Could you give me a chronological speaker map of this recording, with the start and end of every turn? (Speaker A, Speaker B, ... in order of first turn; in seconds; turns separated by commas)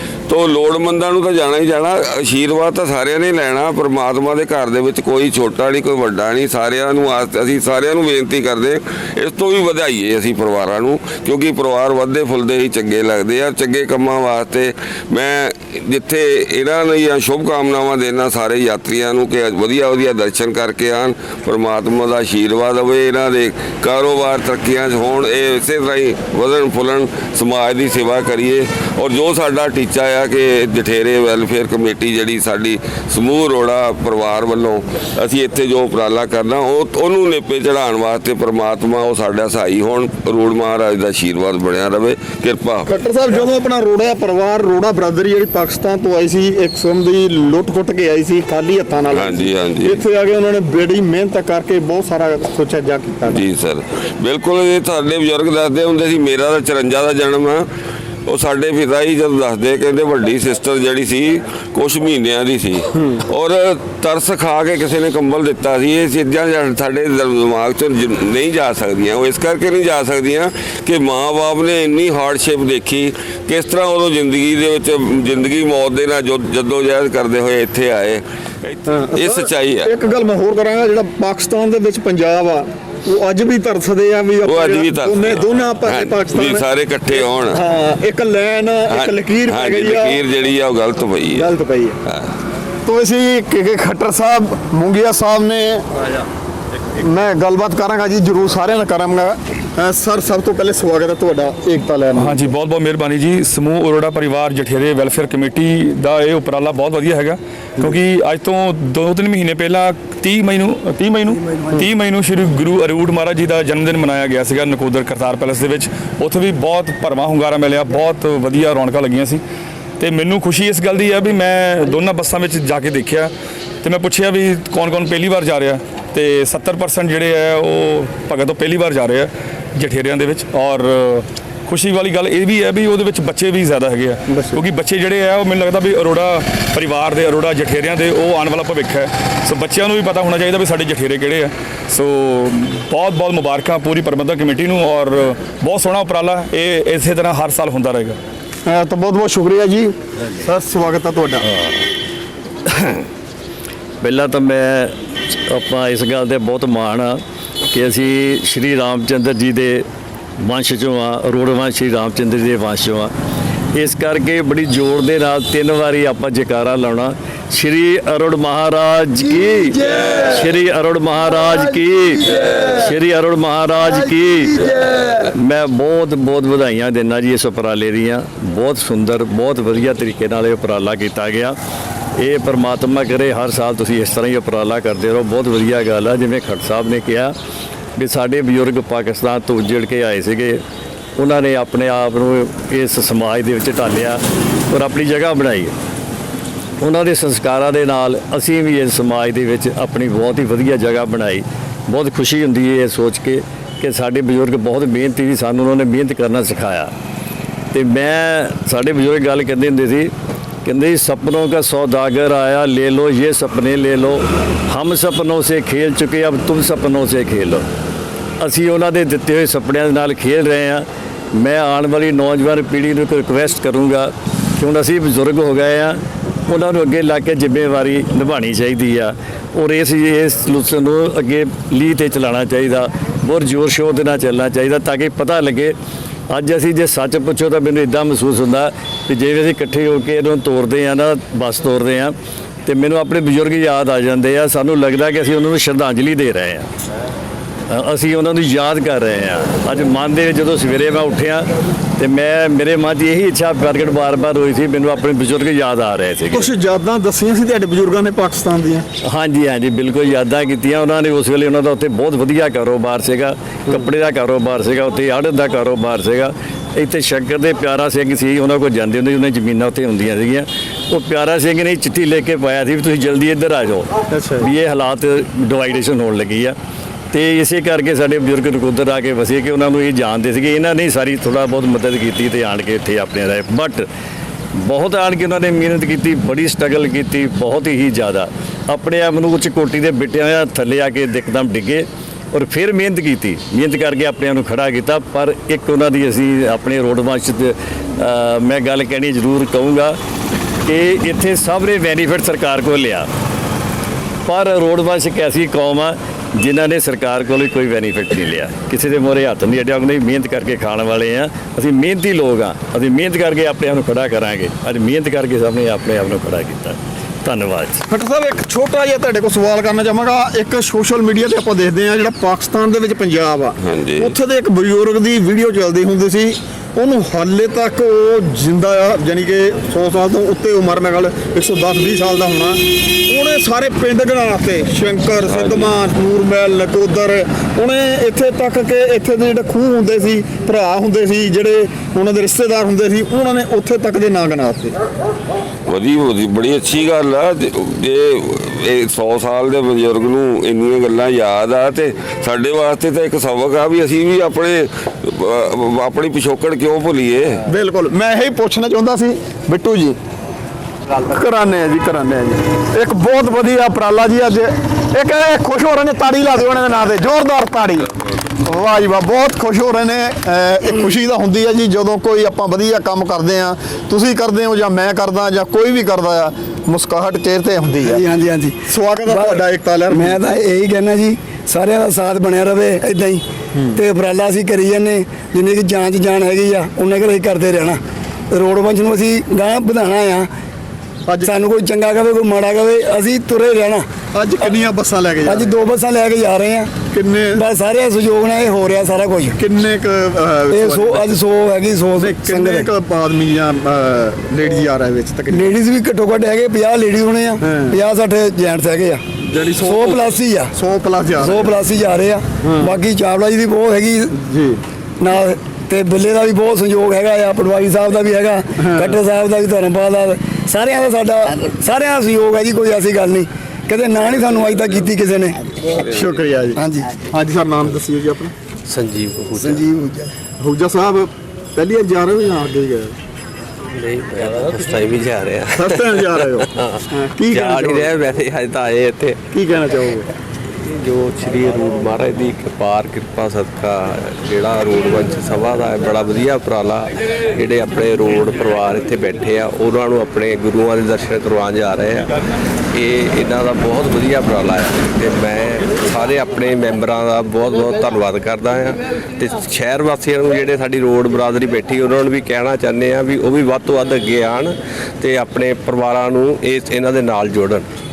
Speaker A: 0.3-42.9, Speaker B: 42.9-53.4, Speaker A: 49.1-50.0, Speaker A: 53.3-57.6, Speaker A: 58.3-79.9, Speaker B: 78.9-90.2, Speaker A: 84.4-87.6, Speaker A: 88.9-91.5, Speaker B: 91.3-92.0, Speaker B: 92.8-95.8, Speaker B: 97.0-102.4, Speaker C: 102.2-119.4, Speaker C: 120.0-123.3, Speaker C: 123.8-148.2, Speaker B: 134.3-134.6, Speaker B: 148.7-151.4, Speaker D: 154.0-157.2, Speaker D: 157.7-159.8, Speaker D: 160.4-163.1, Speaker D: 163.7-181.6, Speaker D: 182.2-187.3, Speaker D: 187.9-190.6, Speaker D: 191.2-195.7, Speaker D: 196.8-206.9, Speaker D: 207.7-210.1, Speaker D: 210.6-217.6, Speaker D: 218.4-235.7, Speaker D: 236.3-242.1, Speaker D: 242.7-246.7, Speaker D: 247.7-251.5, Speaker D: 252.0-256.5, Speaker B: 256.3-258.8, Speaker D: 259.1-276.5, Speaker B: 274.1-274.5, Speaker D: 277.1-283.9, Speaker D: 284.6-299.9, Speaker D: 300.6-303.1, Speaker D: 304.2-317.8, Speaker B: 317.9-344.8, Speaker A: 323.6-324.1, Speaker A: 345.7-357.4, Speaker B: 357.5-359.9, Speaker B: 361.1-367.9, Speaker B: 368.4-378.0, Speaker E: 377.9-383.2, Speaker B: 378.7-380.2, Speaker E: 383.7-387.8, Speaker E: 388.3-390.3, Speaker B: 391.1-391.4, Speaker E: 391.2-393.8, Speaker B: 394.1-395.6, Speaker E: 395.2-396.7, Speaker B: 396.9-397.4, Speaker E: 397.3-399.4, Speaker B: 399.3-401.3, Speaker E: 400.5-402.7, Speaker B: 402.0-405.5, Speaker E: 405.3-409.0, Speaker B: 407.4-407.8, Speaker B: 409.2-411.7, Speaker E: 409.6-410.5, Speaker E: 411.2-414.1, Speaker B: 412.4-412.8, Speaker B: 414.2-414.6, Speaker E: 415.0-425.4, Speaker B: 418.6-418.9, Speaker B: 425.9-428.3, Speaker E: 426.6-426.9, Speaker F: 428.7-429.6, Speaker E: 429.4-430.1, Speaker B: 430.4-432.9, Speaker F: 433.8-439.2, Speaker B: 435.6-437.9, Speaker B: 439.3-440.1, Speaker F: 440.8-452.1, Speaker F: 452.7-467.6